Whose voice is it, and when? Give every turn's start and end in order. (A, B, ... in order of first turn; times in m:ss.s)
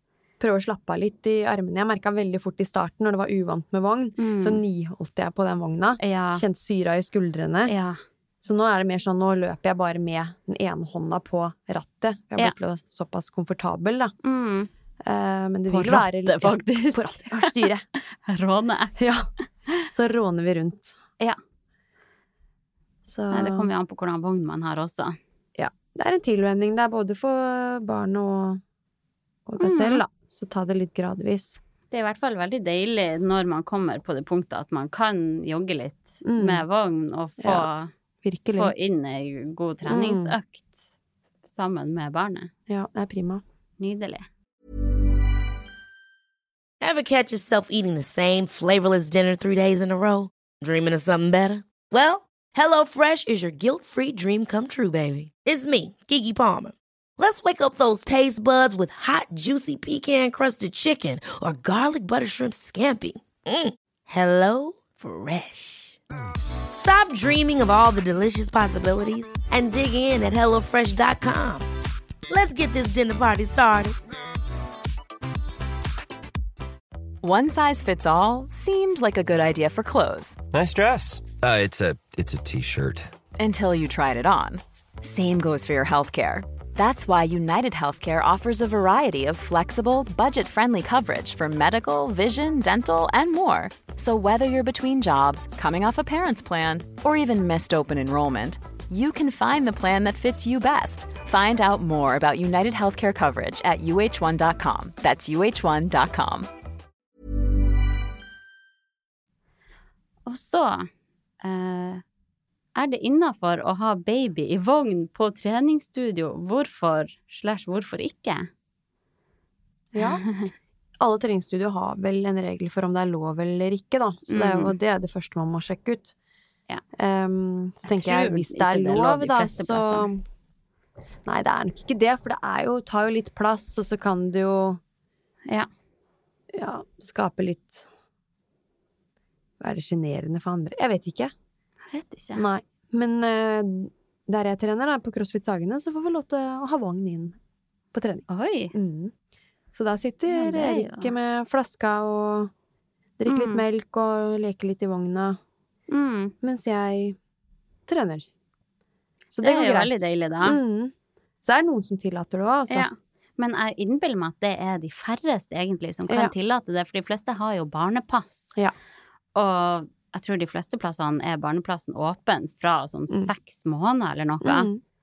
0:00.4-0:07.7 A
0:04.2-0:04.6 B
0:06.0-0:06.4 B
0:07.7-0:08.0 B
0:08.4-0:14.1 A
0:14.2-0:14.7 B
0:15.0-0:17.8 A
0:15.7-0:19.0 B
0:19.0-0:19.3 A
0:19.9-0:21.0 A
0:23.0-0:23.7 A
0:23.3-0:25.2 B
0:25.6-0:28.6 A
0:29.4-0:31.6 A
0:29.6-0:30.0 B
0:31.9-0:37.9 B
0:36.2-0:36.6 A
0:37.4-0:37.7 A
0:38.2-0:38.7 A
0:38.5-0:40.8 B
0:39.9-0:40.4 A
0:41.4-0:42.5 B
0:42.7-0:43.4 A
0:43.8-0:44.2 B
0:46.8-1:06.0 C
1:06.7-1:11.7 C
1:12.3-1:14.0 C
1:17.2-1:20.4 D
1:20.5-1:23.1 E
1:23.4-1:46.5 D
1:50.3-1:50.9 B
1:51.4-1:52.0 B
1:52.8-1:58.5 B
1:59.9-2:00.2 A
2:00.0-2:00.5 B
2:01.0-2:06.1 A
2:04.3-2:04.8 B
2:07.0-2:10.2 A
2:07.8-2:10.1 B
2:11.2-2:14.8 A
2:16.5-2:17.9 A
2:19.6-2:21.3 A
2:21.9-2:22.4 B
2:22.4-2:27.4 A
2:27.9-2:29.1 A
2:28.3-2:28.7 B
2:29.7-2:32.5 A
2:30.3-2:31.1 B
2:33.2-2:35.4 A
2:33.3-2:33.6 B
2:35.9-2:36.3 B
2:36.4-2:37.2 A
2:37.9-2:38.3 A
2:39.3-2:42.9 A
2:39.4-2:40.6 B
2:42.7-2:48.6 B
2:49.4-2:54.7 B
2:54.4-2:54.8 A